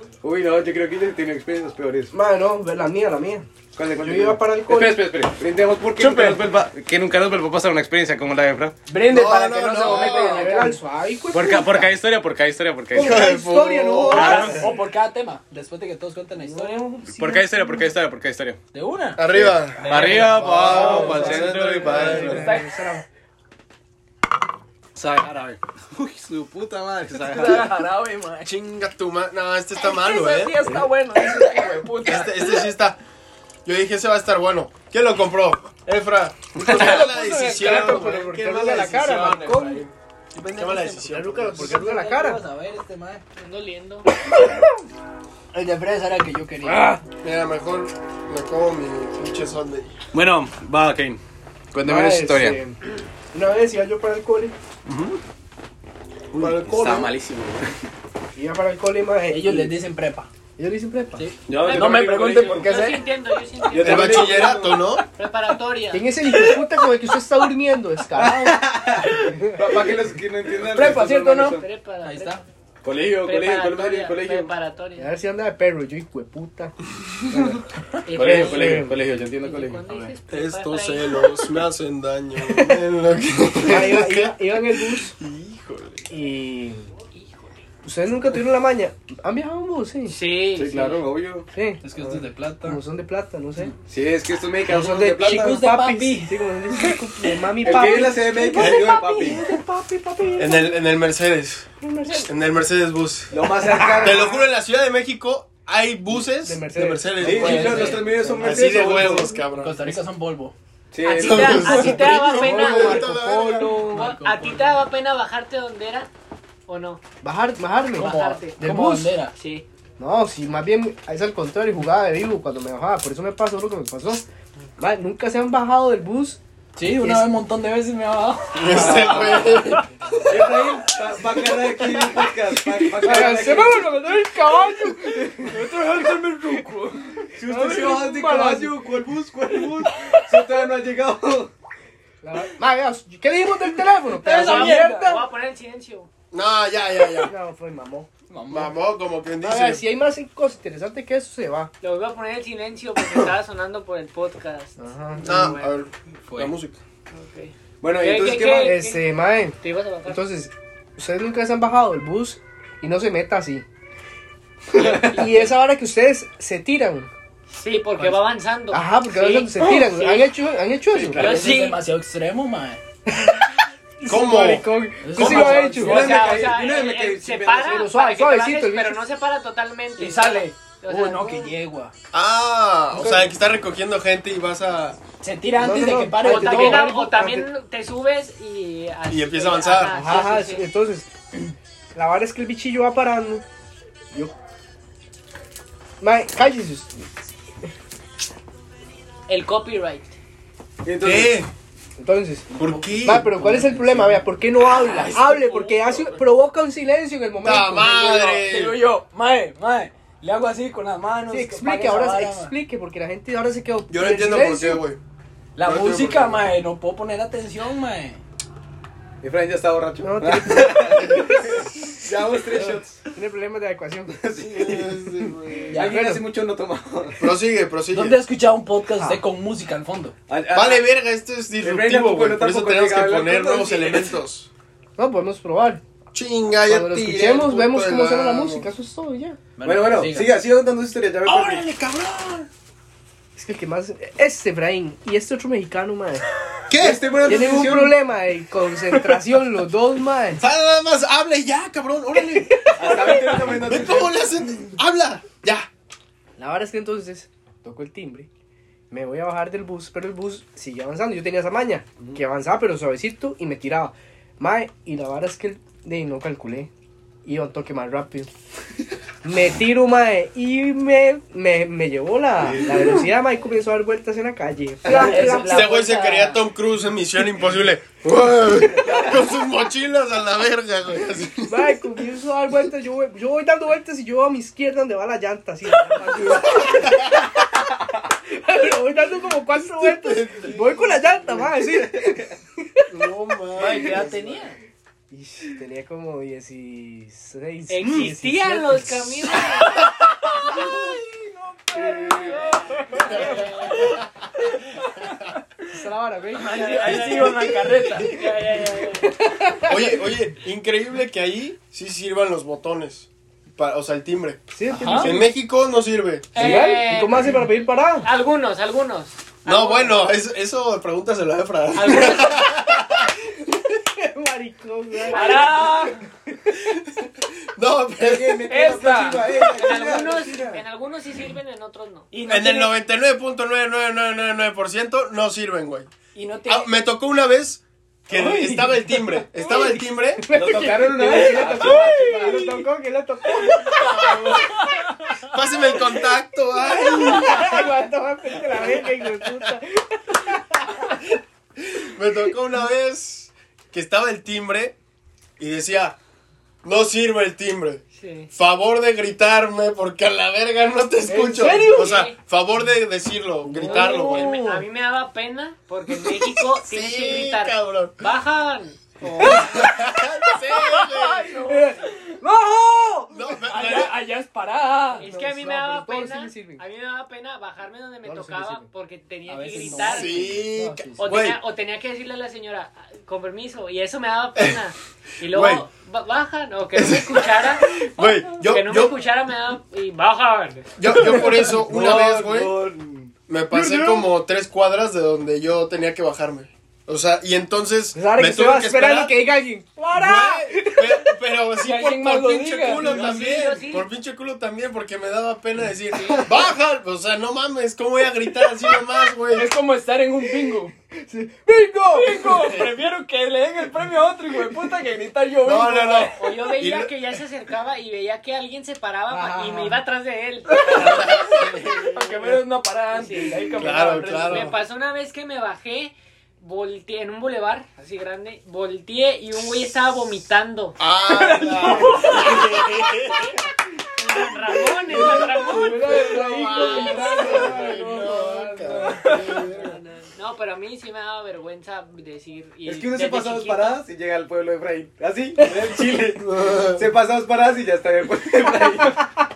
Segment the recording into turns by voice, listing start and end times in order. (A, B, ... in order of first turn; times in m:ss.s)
0:00.2-0:02.1 A
0:02.1-0:05.1 B
0:03.8-0:08.8 A
0:06.0-0:06.4 C
0:08.9-0:10.8 C
0:09.0-0:10.5 D
0:09.8-0:11.9 B
0:11.3-0:14.7 A
0:12.9-0:14.8 B
0:13.0-0:14.7 D
0:14.1-0:16.9 C
0:16.4-0:17.9 B
0:17.1-0:18.6 A
0:18.7-0:22.8 C
0:19.2-0:22.5 D
0:19.3-0:22.5 A
0:20.4-0:23.0 B
0:25.0-0:27.8 A
0:27.2-0:28.5 C
0:28.4-0:30.7 D
0:29.8-0:32.7 C
0:32.0-0:33.0 D
0:33.6-0:39.9 D
0:36.6-0:37.1 A
0:36.6-0:39.8 B
0:40.4-0:43.2 C
0:40.5-0:41.9 D
0:41.0-0:42.4 B
0:43.4-0:44.1 E
0:45.5-0:47.0 C
0:46.7-0:47.0 B
0:47.2-0:50.0 D
0:50.1-0:51.2 A
0:51.7-0:52.6 A
0:51.8-0:52.8 B
0:53.3-0:54.6 B
0:54.9-0:55.2 A
0:56.3-0:57.8 A
0:56.4-0:57.1 D
0:58.4-0:59.7 B
0:59.3-1:00.3 C
1:00.6-1:01.3 B
1:01.2-1:03.0 C
1:01.5-1:02.7 A
1:01.6-1:06.1 E
1:03.7-1:04.9 A
1:03.8-1:05.0 D
1:05.9-1:08.7 B
1:08.2-1:11.6 A
1:09.0-1:09.3 C
1:10.6-1:12.4 C
1:11.6-1:12.4 E
1:12.8-1:14.5 A
1:13.2-1:15.1 E
1:15.0-1:16.7 B
1:17.3-1:17.6 A
1:18.1-1:21.4 E
1:18.1-1:20.1 A
1:18.2-1:19.0 B
1:20.3-1:25.0 D
1:23.6-1:25.2 B
1:25.2-1:26.0 A
1:26.1-1:26.9 B
1:27.1-1:27.6 E
1:27.8-1:30.2 B
1:30.1-1:31.0 E
1:30.6-1:31.5 A
1:31.5-1:33.7 B
1:31.8-1:32.8 C
1:33.8-1:35.6 A
1:34.7-1:40.8 B
1:35.2-1:37.0 C
1:37.6-1:39.5 A
1:38.6-1:39.0 D
1:40.4-1:49.9 D
1:41.8-1:42.3 B
1:43.3-1:44.4 A
1:43.7-1:44.4 B
1:46.4-1:49.4 B
1:47.2-1:49.4 A
1:47.3-1:48.2 C
1:49.5-1:50.5 C
1:50.9-1:51.8 A
1:51.0-1:53.2 E
1:51.1-1:53.8 D
1:51.8-1:54.1 B
1:53.8-1:56.1 E
1:53.9-1:54.8 C
1:56.7-1:57.0 E
1:57.2-1:59.1 B
1:58.0-1:58.6 E
1:58.0-1:59.3 C
1:59.3-1:59.6 E
2:00.0-2:04.2 B
2:04.8-2:06.4 B
2:06.8-2:09.8 C
2:07.0-2:07.4 B
2:08.6-2:09.9 D
2:08.7-2:09.5 A
2:10.3-2:13.9 A
2:12.9-2:15.7 B
2:15.3-2:17.2 C
2:17.4-2:21.5 A
2:17.4-2:19.0 B
2:20.0-2:20.2 C
2:22.2-2:25.3 B
2:24.2-2:25.1 C
2:24.3-2:26.1 E
2:26.3-2:27.3 D
2:27.2-2:28.1 B
2:28.3-2:28.8 C
2:28.5-2:29.8 D
2:29.4-2:31.7 B
2:31.8-2:35.7 E
2:34.8-2:35.6 B
2:35.2-2:36.8 D
2:36.3-2:36.6 C
2:37.1-2:39.0 E
2:37.8-2:38.8 A
2:38.6-2:43.6 B
2:39.6-2:40.2 E
2:44.8-2:45.2 A
2:44.8-2:45.5 E
2:44.8-2:47.1 B
2:47.5-2:50.3 E
2:48.7-2:51.2 B
2:50.9-2:51.4 A
2:51.1-2:52.8 C
2:51.2-2:51.8 E
2:53.1-2:56.0 B
2:54.0-2:55.7 D
2:55.0-2:56.3 C
2:55.2-2:57.9 A
2:55.8-3:01.5 E
2:57.7-2:59.0 B
3:00.0-3:01.9 C
3:02.1-3:05.0 D
3:02.9-3:03.3 B
3:05.2-3:06.9 C
3:05.6-3:07.5 B
3:06.2-3:10.7 E
3:09.1-3:09.9 D
3:09.9-3:11.1 B
3:12.0-3:13.4 B
3:16.0-3:17.0 B
3:19.3-3:20.2 E
3:20.8-3:21.4 A
3:21.0-3:21.5 D
3:22.0-3:22.5 B
3:22.6-3:23.3 D
3:22.6-3:23.0 C
3:23.0-3:28.4 B
3:23.5-3:24.1 A
3:25.0-3:25.7 C
3:25.1-3:25.4 A
3:27.4-3:28.8 D
3:28.4-3:32.6 C
3:31.3-3:34.8 B
3:33.9-3:35.0 D
3:35.6-3:38.2 C
3:35.6-3:36.4 D
3:39.2-3:43.0 A
3:40.0-3:41.2 B
3:41.0-3:41.4 D
3:42.6-3:44.2 B
3:44.1-3:47.3 A
3:44.5-3:45.9 D
3:45.7-3:46.2 B
3:47.2-3:48.2 D
3:47.9-3:50.2 C
3:49.0-3:49.2 B
3:50.3-3:50.8 A
3:50.5-3:54.5 D
3:51.6-3:54.2 A
3:55.0-3:55.8 B
3:56.1-3:58.7 D
3:56.6-3:59.4 B
3:59.6-4:00.3 C
3:59.6-4:01.7 A
4:01.2-4:02.5 D
4:03.4-4:06.3 B
4:06.7-4:07.1 D
4:06.8-4:08.0 A
4:07.2-4:10.4 B
4:10.4-4:15.7 D
4:12.7-4:13.0 B
4:12.8-4:14.2 A
4:16.4-4:18.3 B
4:18.9-4:26.7 B
4:27.2-4:28.3 B
4:29.2-4:35.8 B
4:32.5-4:33.0 A
4:34.9-4:36.4 C
4:35.2-4:41.7 D
4:41.5-4:47.3 B
4:46.3-4:47.3 D
4:48.2-4:54.2 B
4:49.8-4:51.1 D
4:52.9-4:54.2 D
4:53.6-4:54.6 C
4:55.1-4:59.0 B
4:57.7-4:59.9 E
5:00.6-5:03.9 C
5:01.8-5:02.4 B
5:02.8-5:04.0 E
5:02.9-5:03.3 B
5:02.9-5:04.0 D
5:04.5-5:05.6 C
5:05.7-5:07.5 B
5:06.3-5:08.2 C
5:06.4-5:09.2 E
5:09.0-5:10.1 B
5:09.6-5:14.4 D
5:14.5-5:15.3 B
5:14.7-5:15.1 C
5:14.9-5:16.4 D
5:16.3-5:17.5 E
5:16.4-5:18.1 B
5:16.4-5:16.8 C
5:18.0-5:20.1 E
5:19.4-5:23.2 D
5:21.7-5:22.5 E
5:23.7-5:26.5 B
5:25.1-5:26.0 C
5:25.1-5:25.8 E
5:27.6-5:28.6 D
5:28.0-5:30.6 A
5:28.5-5:29.3 C
5:29.4-5:32.1 E
5:32.1-5:32.8 C
5:32.3-5:35.9 D
5:36.1-5:36.7 C
5:36.5-5:40.3 D
5:38.1-5:39.7 C
5:40.2-5:44.4 B
5:40.3-5:42.5 A
5:41.4-5:42.5 C
5:43.7-5:44.7 D
5:44.5-5:45.2 C
5:45.2-5:47.7 D
5:46.6-5:51.1 B
5:48.6-5:48.9 D
5:51.7-5:54.8 D
5:55.4-5:56.0 D
5:56.6-6:04.4 D
5:58.0-5:58.3 E
6:01.1-6:02.0 B
6:01.6-6:02.2 E
6:03.5-6:04.6 B
6:03.6-6:09.4 E
6:06.6-6:08.0 D
6:09.1-6:11.4 D
6:09.1-6:09.8 B
6:09.2-6:09.6 C
6:10.8-6:12.1 C
6:11.2-6:13.4 B
6:13.1-6:13.9 D
6:13.4-6:15.1 C
6:15.0-6:20.4 E
6:15.0-6:16.6 B
6:18.0-6:18.7 B
6:19.3-6:20.4 C
6:19.8-6:21.4 D
6:20.2-6:21.1 B
6:21.0-6:30.8 E
6:25.2-6:25.6 D
6:26.8-6:28.9 D
6:30.8-6:32.6 D
6:31.0-6:34.1 A
6:33.3-6:39.2 D
6:38.0-6:41.2 B
6:39.9-6:49.5 D
6:41.6-6:43.2 C
6:42.7-6:43.9 E
6:45.9-6:46.3 E
6:48.4-6:48.8 B
6:49.3-6:50.7 C
6:50.4-6:52.6 B
6:51.9-6:56.2 C
6:55.4-6:56.9 D
6:56.2-7:00.9 E
6:59.1-6:59.8 B
7:00.5-7:01.0 B
7:00.6-7:02.4 D
7:00.8-7:04.6 C
7:02.9-7:03.4 E
7:03.6-7:04.6 D
7:04.3-7:10.8 E
7:10.8-7:13.4 D
7:11.1-7:12.5 C
7:14.0-7:17.6 E
7:14.9-7:19.8 B
7:14.9-7:19.8 D
7:19.3-7:23.8 E
7:22.6-7:29.0 A
7:26.0-7:26.9 D
7:28.5-7:29.1 B